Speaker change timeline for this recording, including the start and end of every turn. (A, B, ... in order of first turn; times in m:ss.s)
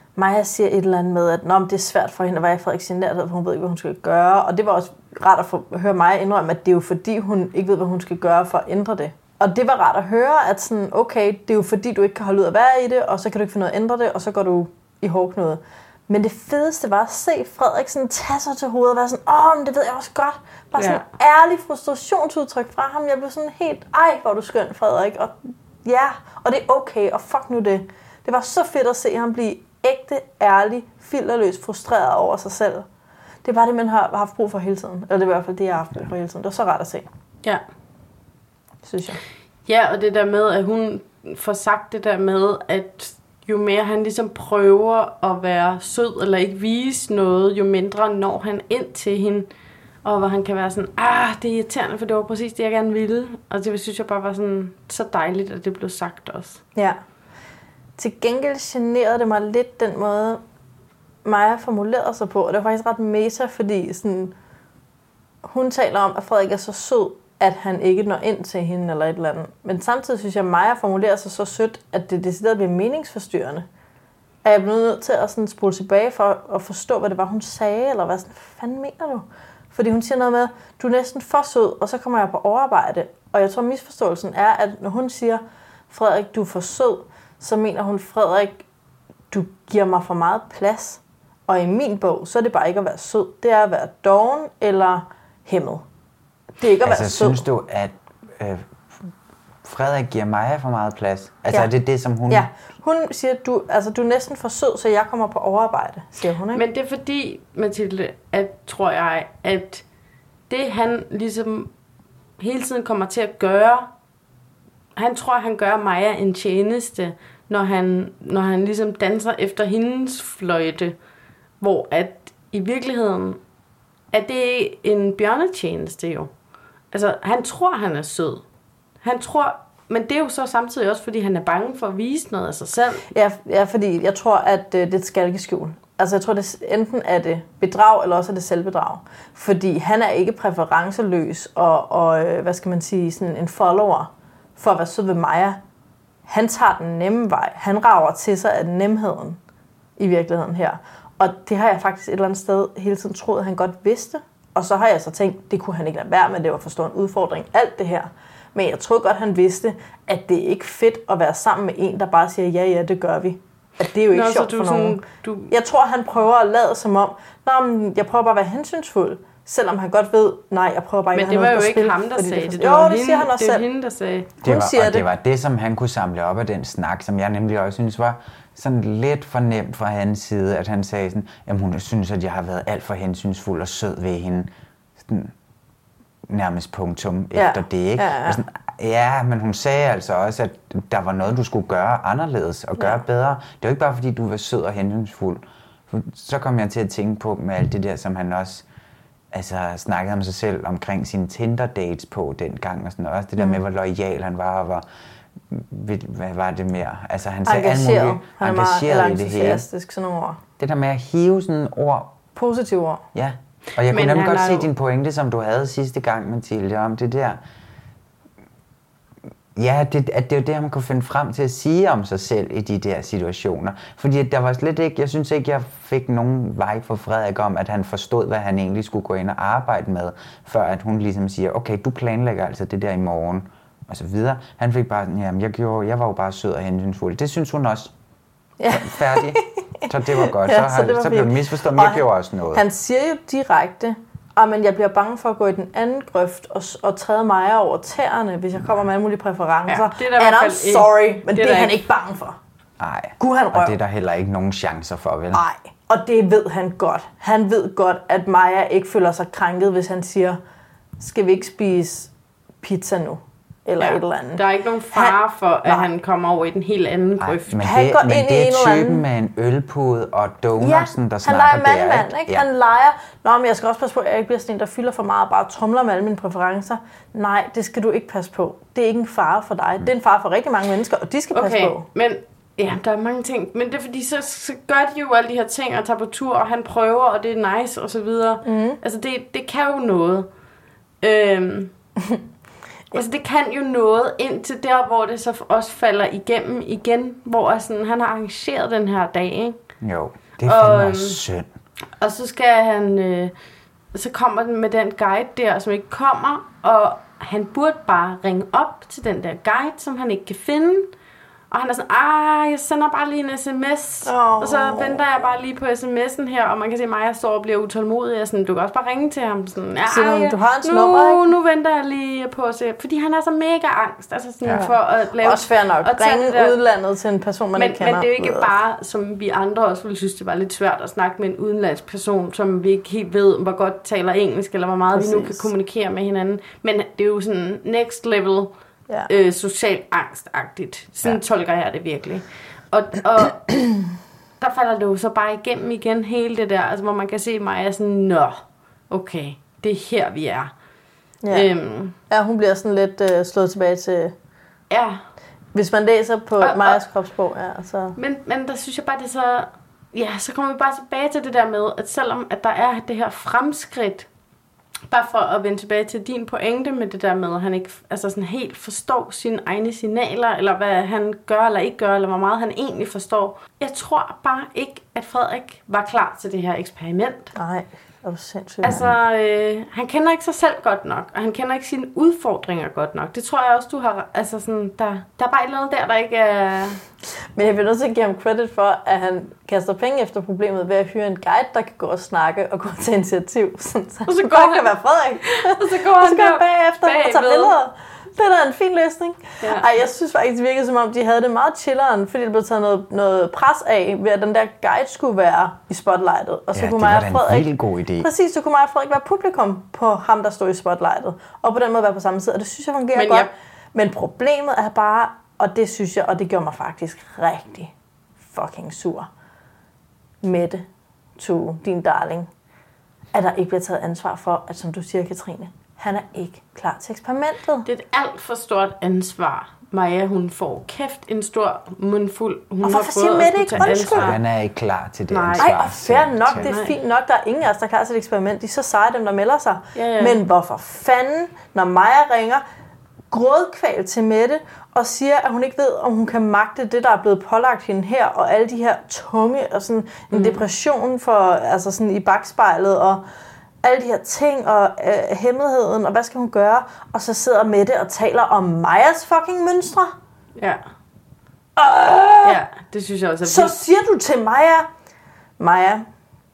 0:00.2-0:32.9 A
0:20.8-0:21.0 B
0:33.4-0:37.1 A
0:38.8-0:39.2 A
0:39.7-0:49.5 B
0:50.0-0:56.6 B
0:58.0-1:00.4 A
1:01.2-1:04.3 A
1:05.4-1:13.7 A
1:14.4-1:28.6 A
1:29.3-1:35.8 A
1:36.6-1:37.4 A
1:36.8-1:38.7 C
1:39.6-1:42.5 C
1:42.3-1:46.6 A
1:46.5-1:49.8 B
1:50.5-1:51.7 B
1:52.4-1:53.9 B
1:55.0-2:01.0 B
2:01.6-2:03.4 B
2:04.1-2:06.3 B
2:06.9-2:08.4 B
2:09.0-2:13.1 B
2:13.1-2:25.6 A
2:26.3-2:29.4 A
2:30.0-2:53.6 A
2:44.1-2:45.5 B
2:51.1-2:54.3 B
2:54.4-3:04.5 C
2:54.4-2:55.1 A
3:05.0-3:05.3 C
3:06.3-3:18.6 C
3:07.4-3:08.4 A
3:19.3-3:24.8 C
3:25.5-3:29.6 C
3:27.5-3:30.4 A
3:30.6-3:32.2 C
3:32.4-3:33.0 A
3:33.1-3:37.4 C
3:33.9-3:34.7 B
3:39.6-3:57.9 C
3:58.6-3:59.4 A
3:58.7-4:02.6 C
4:00.2-4:12.4 A
4:09.7-4:11.8 B
4:12.8-4:15.4 C
4:13.2-4:13.8 A
4:15.3-4:20.4 A
4:21.0-4:22.1 A
4:22.6-4:25.9 A
4:23.8-4:27.6 B
4:27.2-4:32.5 C
4:27.6-4:29.0 A
4:30.6-4:41.8 A
4:41.3-4:50.3 B
4:48.4-4:48.8 A
4:51.0-4:51.7 B
4:52.9-4:59.6 B
4:59.8-5:01.5 C
5:00.4-5:01.2 B
5:02.0-5:03.3 B
5:03.9-5:10.9 B
5:11.5-5:26.6 B
5:14.1-5:15.0 A
5:19.9-5:21.3 A
5:24.5-5:28.5 A
5:27.6-5:38.5 B
5:34.9-5:35.5 A
5:39.1-5:43.6 B
5:44.4-5:50.5 B
5:51.2-5:51.5 A
5:51.3-5:52.0 B
5:52.1-5:54.1 A
5:54.7-5:55.0 B
5:55.5-5:58.0 A
5:56.4-5:56.8 B
5:58.0-6:04.1 B
6:04.9-6:17.3 B
6:17.4-6:18.9 A
6:18.6-6:26.8 B
6:27.4-6:57.7 A
6:34.1-6:34.7 B
6:35.4-6:37.5 B
6:46.5-6:48.1 C
6:53.0-6:53.3 B
6:58.2-6:59.1 A
7:00.2-7:00.6 A
7:01.2-7:02.3 A
7:03.1-7:07.7 A
7:07.6-7:14.2 B
7:12.6-7:14.2 A
7:13.6-7:16.5 C
7:15.1-7:15.5 B
7:15.4-7:22.4 A
7:16.4-7:16.7 B
7:19.8-7:20.2 B
7:23.1-7:33.0 A
7:30.1-7:30.4 B
7:33.6-7:40.0 A
7:41.6-7:42.4 A
7:42.2-7:43.6 B
7:43.2-7:44.7 A
7:45.4-7:45.8 A